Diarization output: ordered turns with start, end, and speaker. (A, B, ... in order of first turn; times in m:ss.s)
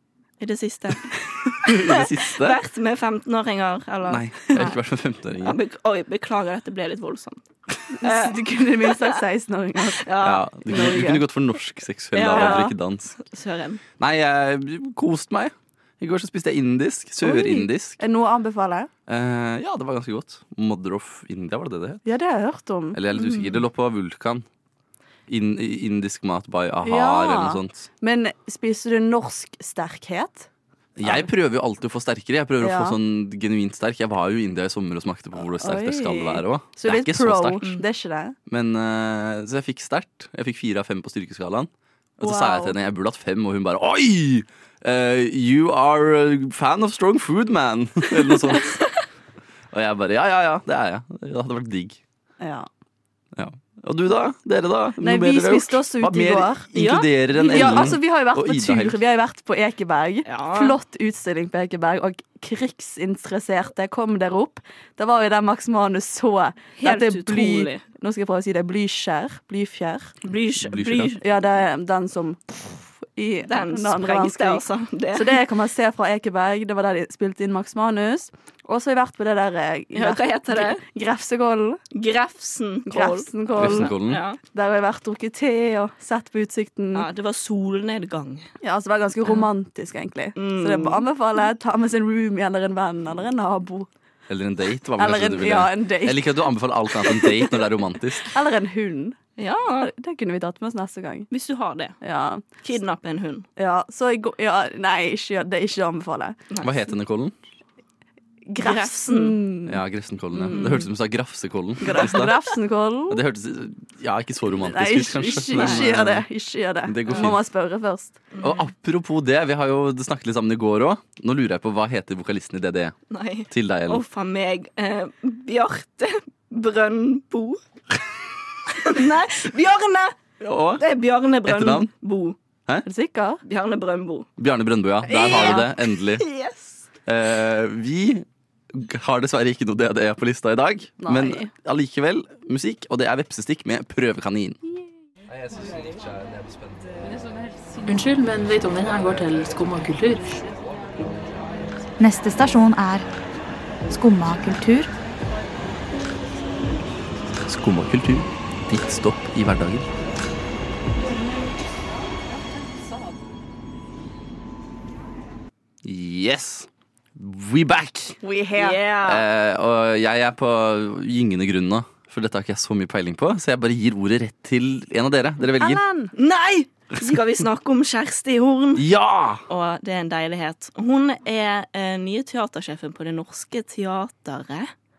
0:00.4-0:04.8 A
0:01.6-0:02.6 B
0:04.0-0:05.6 B
0:05.4-0:07.4 A
0:08.0-0:10.0 C
0:08.0-0:09.1 A
0:10.0-0:11.1 A
0:10.2-0:13.2 B
0:10.7-0:11.2 C
0:12.1-0:13.8 A
0:12.3-0:12.6 C
0:14.0-0:18.0 B
0:17.2-0:18.9 C
0:19.1-0:22.0 B
0:22.0-0:23.0 C
0:22.9-0:24.4 B
0:23.1-0:23.6 A
0:25.3-0:27.9 B
0:26.8-0:30.5 C
0:31.0-0:37.6 B
0:32.6-0:33.0 C
0:35.5-0:38.4 C
0:38.5-0:48.8 B
0:42.2-0:42.7 C
0:48.5-0:48.9 A
0:49.7-0:52.0 B
0:52.4-0:52.7 C
0:53.4-0:59.0 B
0:55.0-0:56.7 C
0:56.7-0:57.9 A
0:57.4-1:10.2 C
1:00.2-1:00.8 A
1:06.8-1:07.8 A
1:10.2-1:11.2 A
1:10.6-1:11.1 B
1:11.2-1:21.8 C
1:13.5-1:15.4 A
1:19.9-1:20.8 A
1:21.9-1:24.4 A
1:22.9-1:23.9 C
1:23.5-1:24.2 B
1:24.4-1:27.1 C
1:26.9-1:28.5 A
1:28.6-1:33.9 C
1:30.4-1:31.0 A
1:34.3-1:38.3 B
1:35.0-1:36.4 C
1:36.9-1:37.6 C
1:38.2-1:39.2 C
1:39.4-1:39.9 A
1:39.8-1:41.3 C
1:41.3-1:42.0 A
1:42.0-1:42.4 C
1:42.6-1:43.5 A
1:43.6-1:46.4 C
1:46.6-1:47.4 B
1:48.5-1:49.8 C
1:48.6-1:49.4 A
1:49.6-1:52.3 B
1:50.3-1:50.7 C
1:50.5-1:50.9 A
1:51.8-1:53.2 C
1:53.1-1:56.2 B
1:54.6-1:58.2 C
1:55.6-1:55.9 A
1:56.8-1:57.4 B
1:58.3-1:58.6 A
1:58.4-2:02.9 B
2:03.1-2:07.6 A
2:03.5-2:04.0 B
2:08.7-2:10.2 A
2:10.4-2:10.8 B
2:10.8-2:12.4 A
2:11.4-2:11.9 B
2:12.8-2:13.4 C
2:13.4-2:14.3 A
2:14.4-2:16.2 B
2:15.1-2:15.7 C
2:15.2-2:16.8 A
2:17.0-2:24.6 B
2:21.0-2:21.5 C
2:25.3-2:27.2 B
2:27.8-2:30.4 D
2:28.8-2:31.7 B
2:32.0-2:33.0 E
2:33.9-2:34.9 E
2:37.4-2:39.9 B
2:45.8-2:48.2 B
2:48.2-2:48.8 C
2:48.6-2:49.2 A
2:49.0-2:55.8 B
2:55.6-2:56.1 C
2:56.1-2:58.8 A
2:58.8-2:59.4 B
2:59.5-3:04.7 A